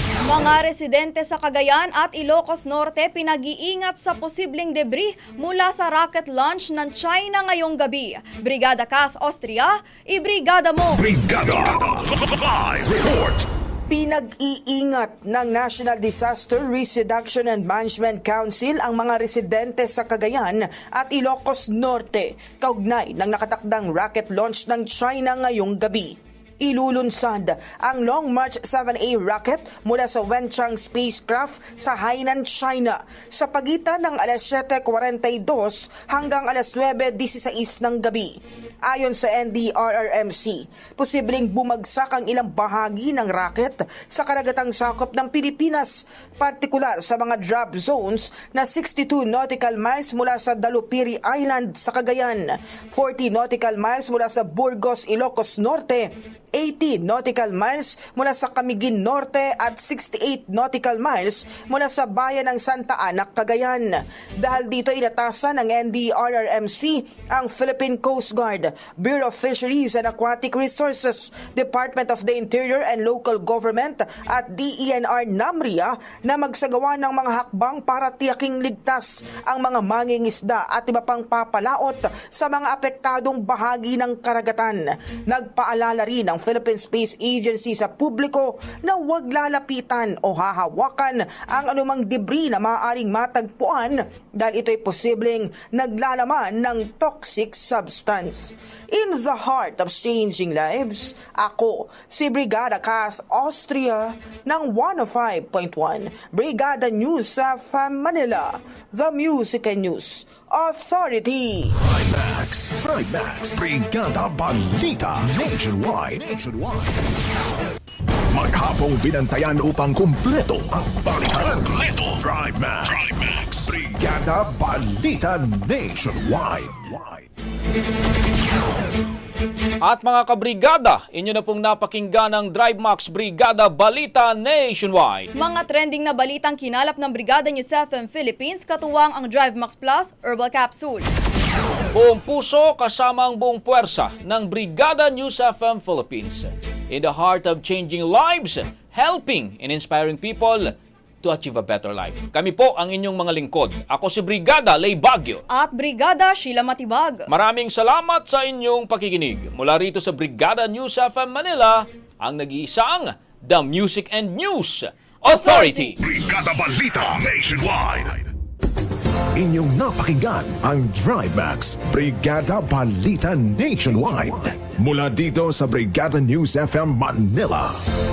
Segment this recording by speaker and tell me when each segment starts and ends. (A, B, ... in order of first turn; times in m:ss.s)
0:00.3-0:11.0 A
0:11.0-0:13.4 B
0:13.9-1:51.8 C
1:51.8-1:57.0 B
1:58.3-2:07.2 B
2:09.8-2:15.3 D
2:15.4-2:21.1 A
2:21.9-2:30.7 D
2:31.2-2:35.4 D
2:35.5-2:37.3 A
2:37.3-2:46.0 D
2:45.3-2:45.9 A
2:46.1-2:48.2 B
2:49.3-2:57.8 B